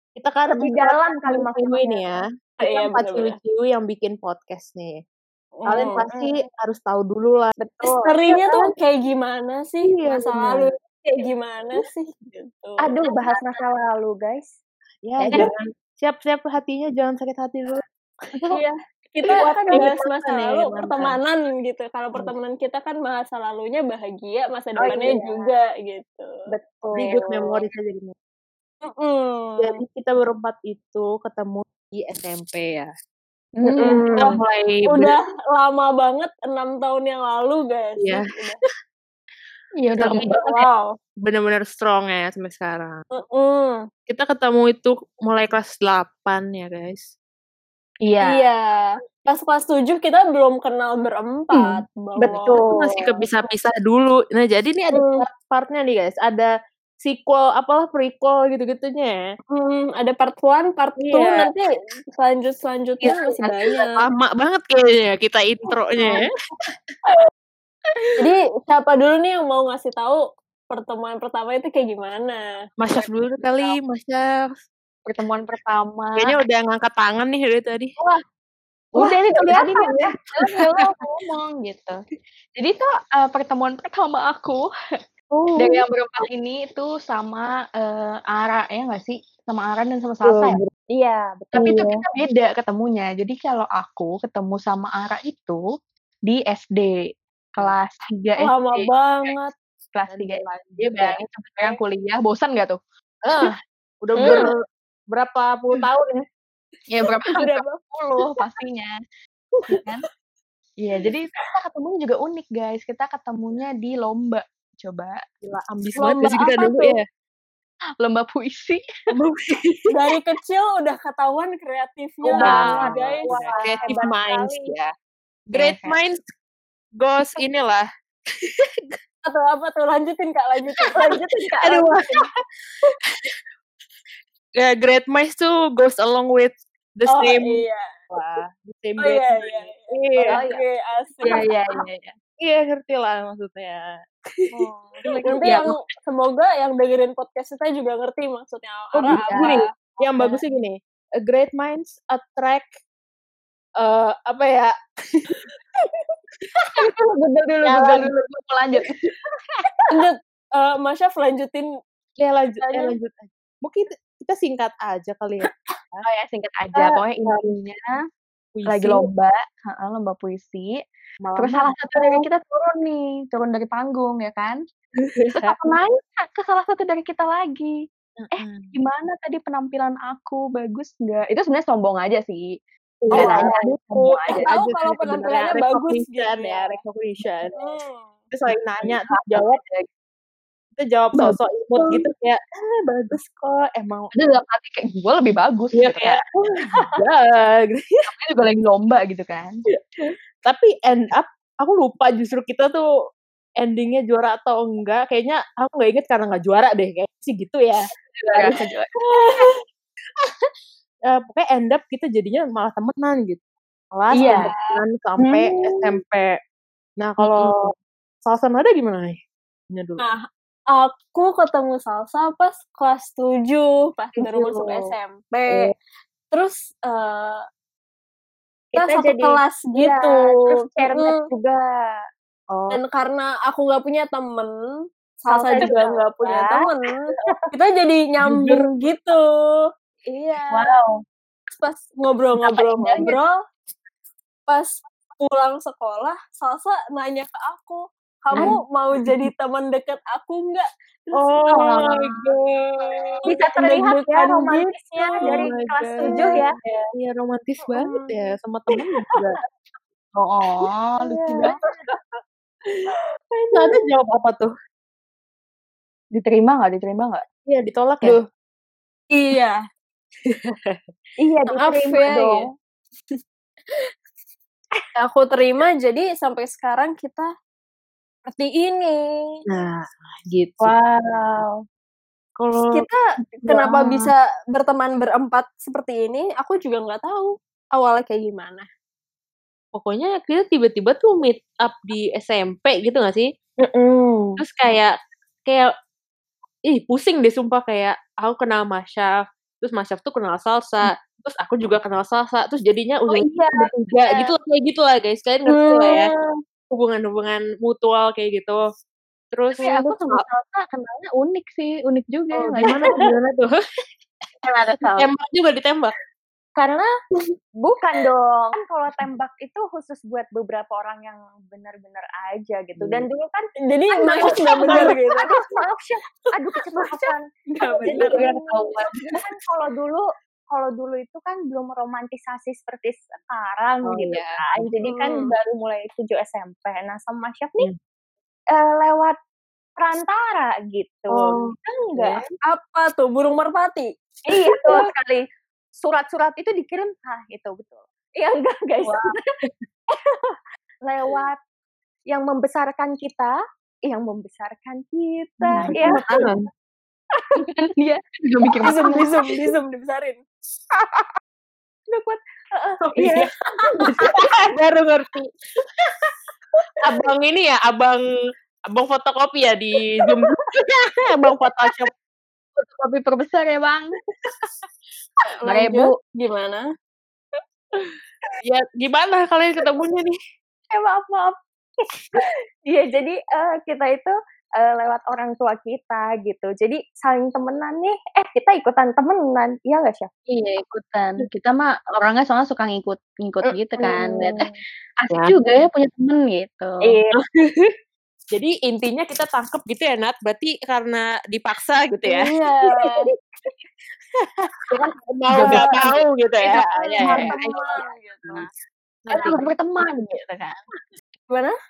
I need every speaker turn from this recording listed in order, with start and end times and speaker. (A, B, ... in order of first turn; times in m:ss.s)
0:00.2-0:05.0 A
0:00.6-0:02.2 B
0:02.6-0:03.4 C
0:05.6-0:06.3 C
0:05.7-0:07.6 A
0:07.6-0:08.7 B
0:08.1-0:13.6 C
0:09.9-0:10.7 A
0:12.8-0:14.5 B
0:15.0-0:17.8 A
0:15.2-0:15.5 D
0:18.5-0:26.3 C
0:19.7-0:21.2 A
0:24.8-0:25.6 B
0:26.5-0:27.6 B
0:27.0-0:28.2 A
0:28.9-0:29.8 C
0:29.6-0:32.9 A
0:33.6-0:34.4 D
0:33.6-0:34.3 B
0:33.8-0:34.3 C
0:34.1-0:35.1 A
0:34.9-0:38.6 C
0:38.0-0:38.2 A
0:39.8-0:40.6 D
0:40.0-0:40.3 A
0:40.1-0:40.9 C
0:41.2-0:43.0 A
0:43.1-0:43.8 C
0:44.1-0:47.1 A
0:48.0-0:48.4 D
0:48.2-0:52.6 C
0:52.2-0:53.2 B
0:52.3-0:56.5 A
0:54.9-0:55.2 C
0:57.0-0:59.2 A
0:59.5-1:04.0 C
1:01.0-1:01.5 A
1:03.1-1:06.3 A
1:08.0-1:08.3 D
1:08.2-1:12.4 C
1:12.8-1:14.6 A
1:15.0-1:16.4 D
1:16.2-1:18.0 A
1:19.0-1:22.0 D
1:19.0-1:20.2 B
1:22.6-1:24.7 D
1:25.3-1:25.8 A
1:25.6-1:30.6 D
1:30.2-1:30.7 A
1:30.9-1:31.9 B
1:31.5-1:35.6 D
1:31.6-1:32.0 A
1:36.3-1:37.0 D
1:37.6-1:39.3 D
1:38.4-1:39.5 C
1:39.9-1:42.8 D
1:40.1-1:41.2 A
1:43.2-1:44.6 A
1:44.2-1:44.5 C
1:44.2-1:44.5 D
1:45.1-1:46.2 A
1:46.9-1:49.0 D
1:47.3-1:47.8 C
1:49.7-1:50.1 D
1:50.8-1:55.2 D
1:55.4-1:57.0 A
1:56.0-1:57.0 C
1:58.0-1:58.8 D
1:59.1-2:00.0 A
1:59.9-2:03.3 C
2:02.3-2:04.0 D
2:02.4-2:04.9 A
2:03.2-2:04.8 B
2:05.5-2:06.0 D
2:05.5-2:06.2 A
2:07.0-2:07.9 A
2:08.4-2:08.9 A
2:09.2-2:11.8 C
2:11.0-2:11.9 B
2:11.6-2:12.2 A
2:14.6-2:20.4 A
2:17.1-2:17.8 C
2:19.0-2:21.5 C
2:20.2-2:20.6 B
2:21.2-2:22.1 D
2:22.4-2:25.7 A
2:24.6-2:29.7 C
2:25.4-2:25.7 D
2:29.1-2:29.6 D
2:29.2-2:32.7 A
2:33.8-2:35.5 A
2:36.7-2:39.0 D
2:37.6-2:38.2 A
2:39.9-2:41.7 C
2:42.2-2:46.0 A
2:42.6-2:43.0 C
2:46.0-2:48.0 D
2:46.8-2:47.4 A
2:48.6-2:49.1 A
2:48.7-2:50.8 D
2:51.2-2:52.2 A
2:51.4-2:54.6 D
2:55.0-2:55.6 A
2:55.4-2:57.8 D
2:58.2-2:58.8 A
2:58.4-3:02.5 D
3:03.0-3:07.6 A
3:03.1-3:04.5 D
3:04.4-3:06.8 C
3:07.6-3:08.1 C
3:08.3-3:09.6 A
3:08.8-3:09.9 D
3:10.8-3:14.1 A
3:11.1-3:12.0 D
3:14.1-3:16.2 D
3:15.7-3:17.8 A
3:18.1-3:19.5 D
3:20.4-3:22.8 A
3:23.6-3:28.6 A
3:28.2-3:28.9 D
3:29.0-3:29.5 C
3:31.1-3:33.4 A
3:33.9-3:36.3 A
3:34.1-3:34.5 D
3:34.2-3:34.7 C
3:35.3-3:35.8 D
3:37.0-3:37.7 A
3:37.2-3:37.7 D
3:38.2-3:39.2 A
3:39.7-3:40.0 A
3:40.7-3:45.7 C
3:46.3-3:47.4 C
3:48.7-3:52.0 B
3:48.7-3:50.3 C
3:52.5-3:52.8 A
3:52.7-3:54.7 C
3:55.2-4:00.8 C
3:55.3-3:56.7 B
3:58.2-3:58.7 A
4:00.5-4:00.9 D
4:01.5-4:03.4 C
4:02.4-4:03.2 D
4:04.5-4:12.1 C
4:11.1-4:12.9 A
4:12.9-4:15.5 C
4:13.2-4:16.5 B
4:15.2-4:19.4 A
4:16.0-4:16.4 C
4:17.7-4:18.3 C
4:20.2-4:21.6 D
4:21.4-4:21.7 C
4:23.5-4:24.5 A
4:26.2-4:27.2 D
4:27.5-4:28.2 A
4:29.1-4:29.6 C
4:30.3-4:30.8 A
4:31.2-4:32.5 B
4:31.5-4:32.5 C
4:35.0-4:37.3 C
4:38.3-4:39.4 C
4:39.5-4:40.7 A
4:40.6-4:41.6 B
4:42.4-4:42.8 A
4:42.7-4:48.7 C
4:43.4-4:44.0 D
4:49.7-4:53.3 A
4:53.6-4:54.4 B
4:54.4-4:54.9 A
4:56.7-5:06.1 A
5:03.1-5:04.1 D
5:05.5-5:06.2 C
5:06.7-5:08.6 A
5:09.3-5:10.2 A
5:09.6-5:12.9 D
5:12.4-5:13.6 A
5:14.7-5:15.0 D
5:14.8-5:16.0 A
5:16.6-5:16.9 B
5:17.6-5:27.2 B
5:23.7-5:25.5 C
5:24.6-5:25.0 D
5:27.6-5:28.2 C
5:27.8-5:29.2 D
5:27.8-5:37.7 B
5:33.9-5:34.7 A
5:34.8-5:35.3 C
5:38.5-5:39.2 B
5:39.8-5:42.2 B
5:41.1-5:42.2 A
5:42.5-5:43.9 C
5:44.3-5:49.1 B
5:50.0-5:50.3 B
5:50.8-5:51.4 B
5:52.1-5:56.2 B
5:55.4-5:55.8 D
5:55.6-5:56.4 A
5:57.4-5:59.1 D
5:58.6-6:00.2 C
6:01.9-6:04.2 B
6:02.9-6:03.2 A
6:03.9-6:05.3 A
6:06.8-6:08.0 A
6:08.7-6:11.9 A
6:12.6-6:14.0 D
6:15.3-6:16.6 C
6:15.4-6:15.9 D
6:18.4-6:20.2 A
6:20.7-6:30.1 B
6:30.3-6:34.4 D
6:33.4-6:34.6 B
6:35.0-6:37.0 D
6:36.8-6:37.2 B
6:37.4-6:37.7 A
6:38.3-6:42.3 A
6:42.1-6:43.1 C
6:44.7-6:47.6 A
6:45.3-6:48.4 D
6:46.5-6:48.5 C
6:49.0-6:49.4 A
6:49.1-6:50.6 D
6:51.3-6:51.6 C